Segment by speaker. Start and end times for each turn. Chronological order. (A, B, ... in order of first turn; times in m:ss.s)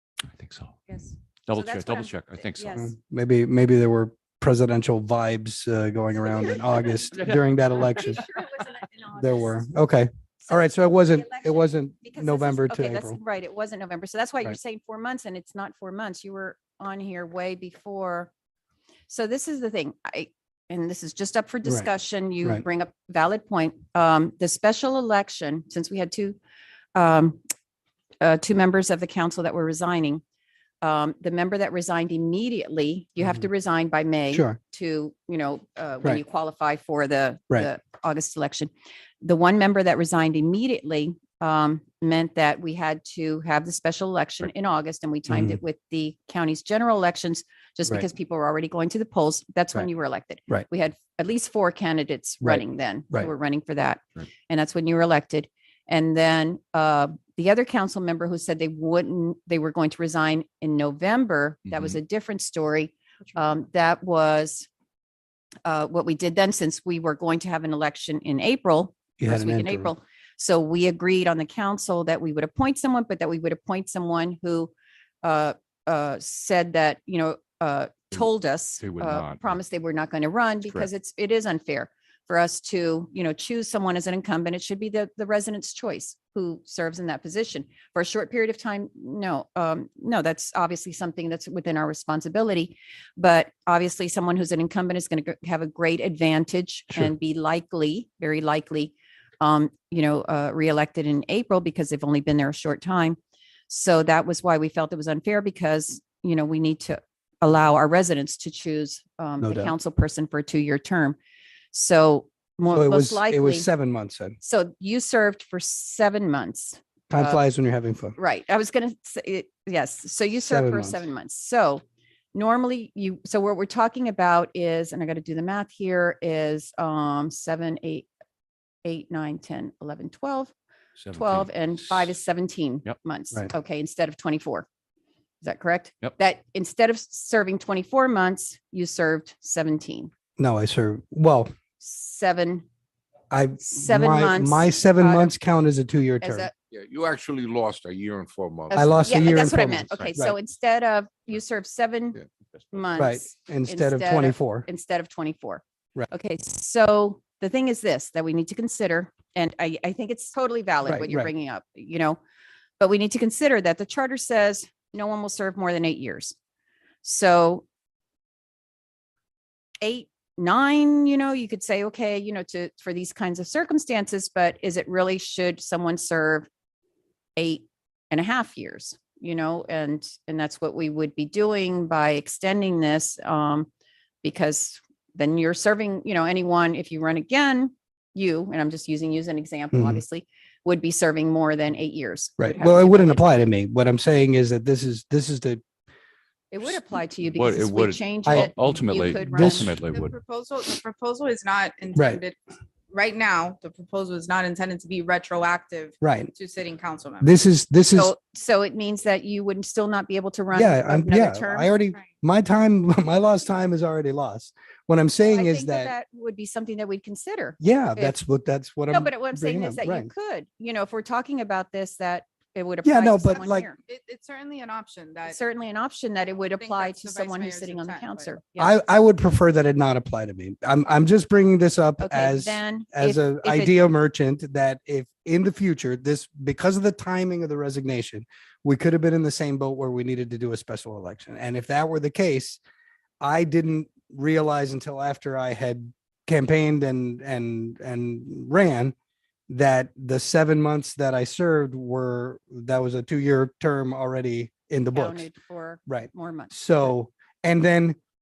0:00.3-0:00.8 A
0:00.9-0:03.0 B
0:01.5-0:02.9 A
0:02.8-0:08.2 C
0:06.3-0:07.0 B
0:07.7-0:09.6 B
0:09.1-0:13.2 C
0:10.4-0:18.3 B
0:19.1-0:26.4 B
0:26.9-0:27.4 B
0:28.2-0:30.2 B
0:30.8-0:38.7 B
0:34.3-0:34.6 C
0:39.2-1:04.7 B
0:45.3-0:45.6 C
0:52.4-0:53.3 C
1:05.6-1:14.7 B
1:09.2-1:09.9 C
1:15.2-1:43.2 B
1:18.8-1:19.5 A
1:43.7-1:51.2 B
1:49.4-1:49.7 C
1:51.7-1:53.7 B
1:52.7-1:54.4 C
1:54.4-1:57.4 B
1:57.1-1:58.2 C
1:58.2-2:01.8 B
2:00.4-2:01.0 C
2:02.3-2:08.1 B
2:08.8-2:10.5 B
2:11.0-2:12.1 A
2:11.1-2:14.6 B
2:15.4-2:20.1 B
2:20.4-2:21.5 C
2:21.8-2:22.6 B
2:23.3-2:26.5 C
2:23.6-2:25.3 B
2:26.2-2:26.5 B
2:26.7-2:28.8 D
2:28.7-2:42.2 B
2:28.7-2:30.3 C
2:29.9-2:30.2 A
2:33.0-2:34.6 C
2:40.8-2:41.3 C
2:42.8-2:46.3 B
2:47.0-2:47.6 B
2:49.8-2:56.5 B
2:57.4-3:03.7 B
3:04.2-3:13.3 B
3:09.7-3:10.0 C
3:12.4-3:15.6 C
3:16.5-3:19.7 B
3:17.3-3:20.2 A
3:18.2-3:18.5 C
3:19.4-3:19.7 C
3:19.8-3:22.4 E
3:21.9-3:22.2 C
3:22.9-3:27.3 E
3:26.0-3:26.3 C
3:27.2-3:28.1 C
3:27.9-3:31.7 B
3:30.5-3:35.9 C
3:35.2-3:38.2 B
3:37.6-3:40.1 C
3:38.9-3:43.8 B
3:42.8-3:43.7 C
3:43.4-3:45.4 E
3:45.3-3:48.7 B
3:46.6-3:48.4 E
3:48.6-4:02.6 C
3:52.0-3:53.8 B
4:03.2-4:08.9 C
4:09.5-4:15.3 C
4:14.9-4:16.9 B
4:15.9-4:18.0 C